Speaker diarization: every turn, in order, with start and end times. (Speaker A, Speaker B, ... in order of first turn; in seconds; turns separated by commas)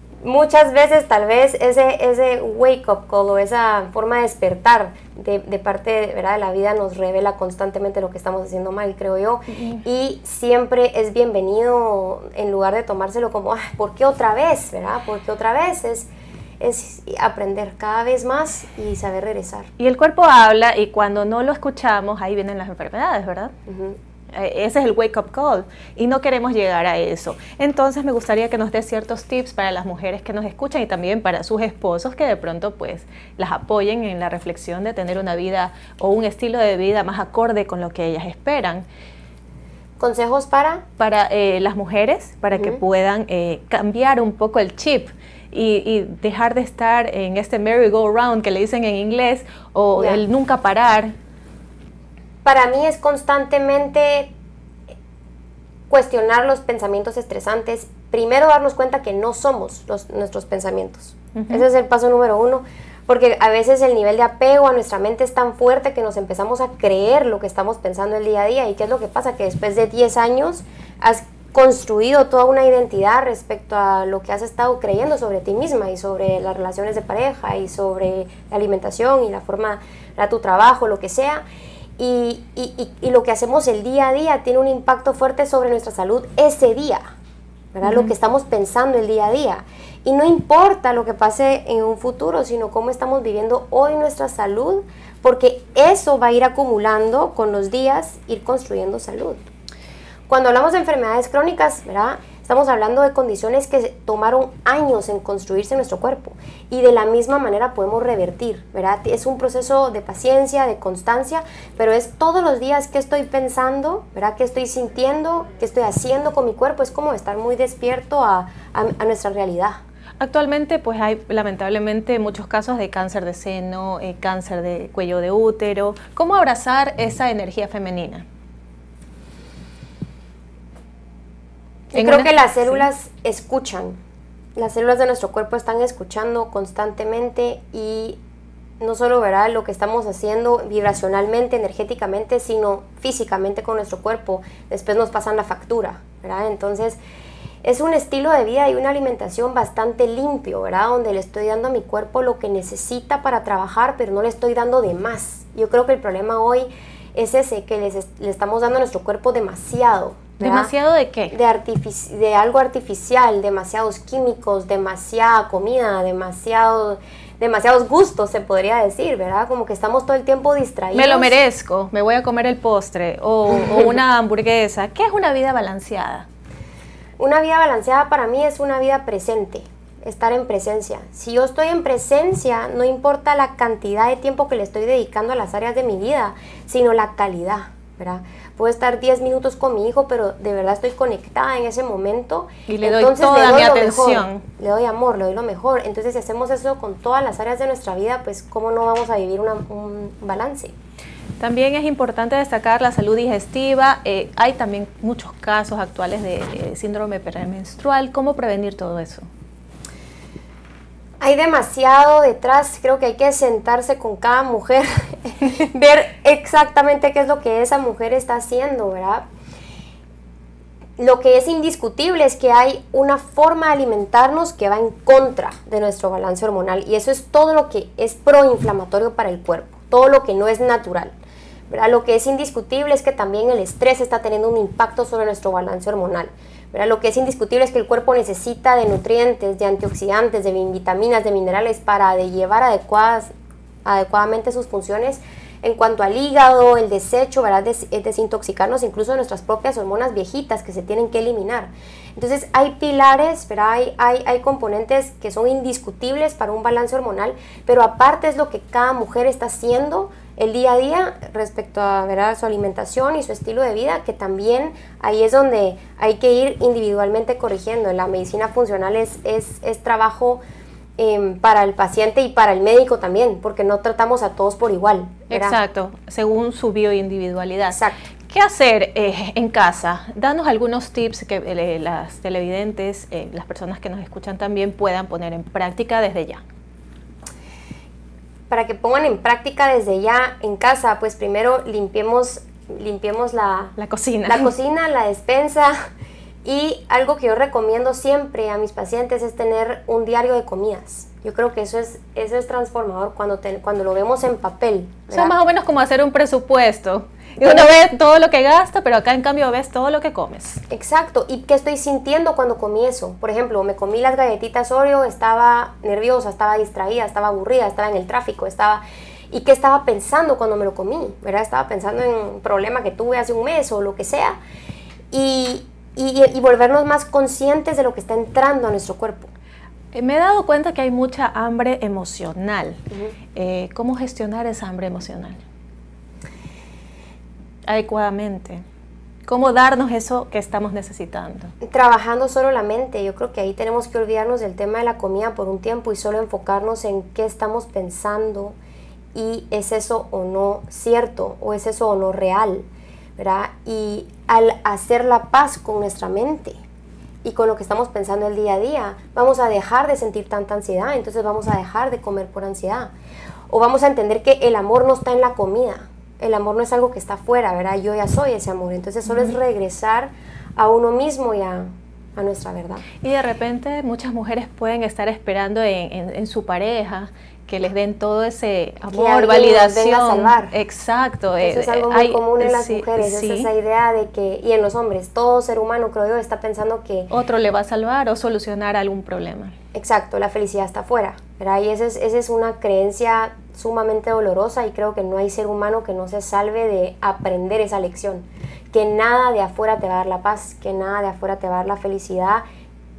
Speaker A: 0.2-16.1, Speaker B: 9.5-9.8, Speaker A: 16.6-19.7, Speaker B: 19.8-23.5, Speaker A: 23.7-24.0, Speaker B: 24.3-38.9, Speaker A: 40.0-40.8, Speaker B: 41.0-51.1, Speaker A: 42.5-42.8, Speaker A: 50.0-50.2, Speaker A: 52.4-54.3, Speaker A: 55.9-81.4, Speaker B: 61.4-61.6, Speaker A: 82.0-87.1, Speaker A: 87.7-99.4, Speaker B: 87.8-88.1, Speaker A: 100.3-119.8, Speaker B: 120.2-128.2, Speaker A: 131.9-134.0, Speaker B: 131.9-132.8, Speaker A: 134.6-138.2, Speaker A: 138.8-147.0, Speaker A: 147.6-160.7, Speaker B: 160.4-161.3, Speaker A: 161.3-171.3, Speaker B: 170.9-176.2, Speaker A: 177.2-200.7, Speaker B: 192.7-194.4, Speaker B: 201.4-209.3, Speaker A: 211.2-219.3, Speaker A: 221.0-231.2, Speaker A: 231.7-243.3, Speaker A: 243.8-270.4, Speaker A: 271.0-275.6, Speaker B: 275.3-286.4, Speaker A: 277.7-278.0, Speaker A: 288.5-293.8, Speaker B: 293.8-294.5, Speaker A: 294.2-295.8, Speaker A: 296.4-305.3, Speaker B: 305.1-310.6, Speaker A: 307.4-307.7, Speaker A: 310.7-324.4, Speaker A: 325.1-329.3, Speaker B: 329.9-332.8, Speaker B: 333.3-335.4, Speaker B: 337.7-338.6, Speaker B: 339.2-341.5, Speaker A: 341.6-348.6, Speaker A: 349.1-356.6, Speaker A: 357.2-362.9, Speaker A: 363.5-372.8, Speaker B: 369.1-369.3, Speaker B: 373.0-383.5, Speaker A: 378.9-380.5, Speaker A: 381.4-387.1, Speaker B: 387.1-389.5, Speaker A: 389.7-402.4